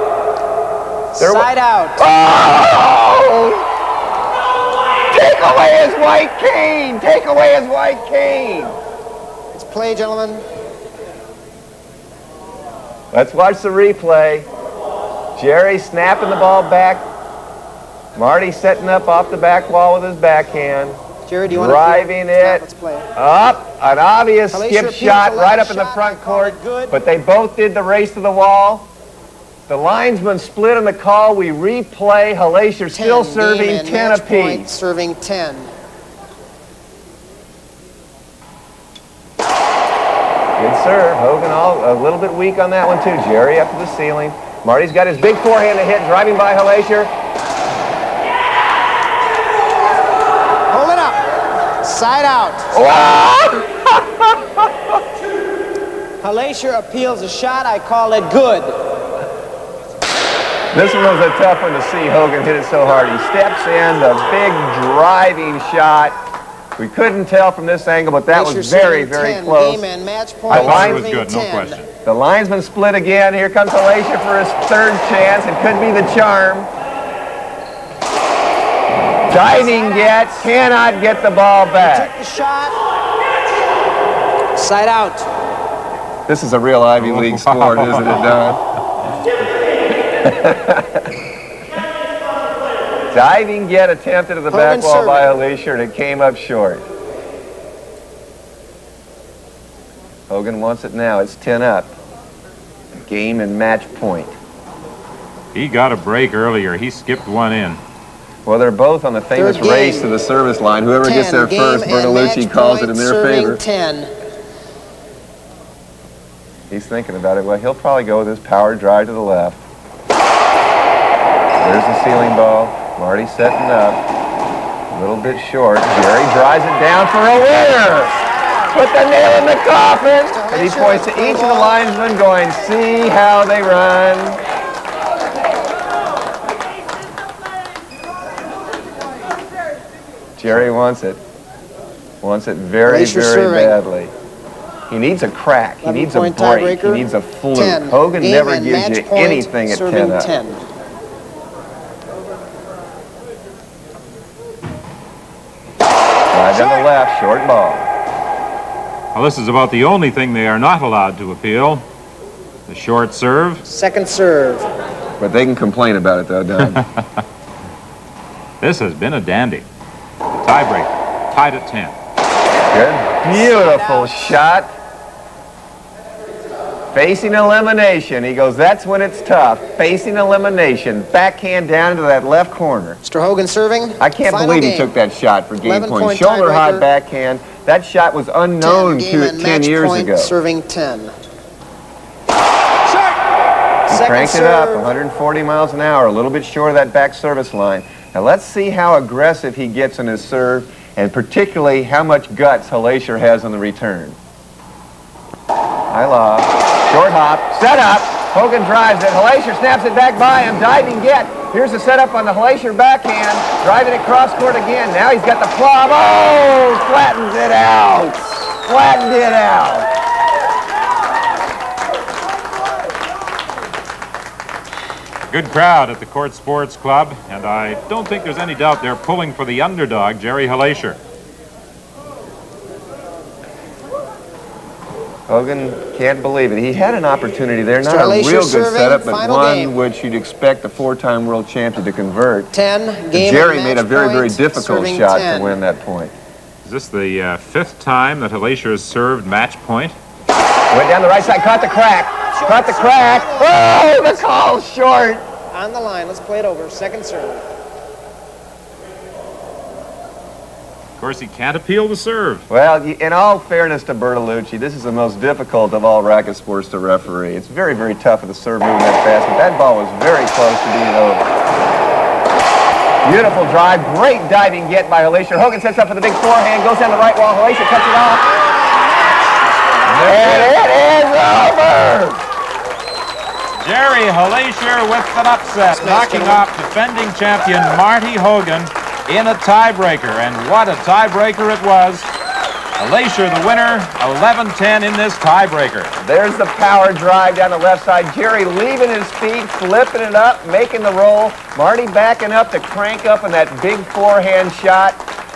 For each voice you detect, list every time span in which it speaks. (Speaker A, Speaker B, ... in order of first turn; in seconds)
Speaker A: 1.2-2.0, 9.5-10.4, 21.3-23.1, 24.5-26.9, 32.9-35.7, 50.7-51.2, 51.8-52.7, 56.2-58.8, 68.3-71.8, 79.5-80.3, 81.8-82.8, 84.5-85.3, 94.5-95.3, 109.4-110.1, 111.0-114.1, 128.2-128.8, 130.3-131.8, 142.8-143.8, 145.8-150.7, 163.7-164.7, 173.4-174.2, 183.1-184.9, 185.6-186.8, 188.6-191.1, 192.9-194.9, 237.8-239.7, 242.5-245.6, 252.3-254.2, 255.5-257.4, 278.2-279.9, 285.7-286.5
Speaker B: 1.2-3.6, 5.1-8.8, 13.1-14.5, 15.4-17.1, 18.2-22.6, 23.1-28.9, 29.7-34.7, 40.6-47.1, 52.7-54.4, 60.7-66.2, 66.8-69.8, 70.5-71.1, 72.0-76.7, 79.3-82.1, 86.3-88.6, 90.2-91.1, 93.1-96.9, 100.3-102.0, 103.0-104.3, 108.5-113.6, 116.7-119.6, 121.6-124.0, 124.9-128.2, 128.7-134.4, 140.4-141.2, 142.2-144.1, 144.9-150.3, 156.3-157.9, 165.2-166.8, 172.7-174.7, 176.9-183.0, 184.0-190.3, 193.9-204.2, 205.9-219.9, 235.3-242.5, 243.1-246.1, 250.7-255.2, 262.5-271.3, 273.0-278.3, 279.9-282.2, 296.0-305.0
Speaker C: 70.5-71.9, 87.2-88.3, 105.5-107.8, 159.1-161.8, 162.7-163.7, 168.6-169.7, 170.3-172.0, 225.3-231.0, 246.7-250.0, 261.0-262.4, 279.9-280.5, 283.6-292.1, 292.8-295.9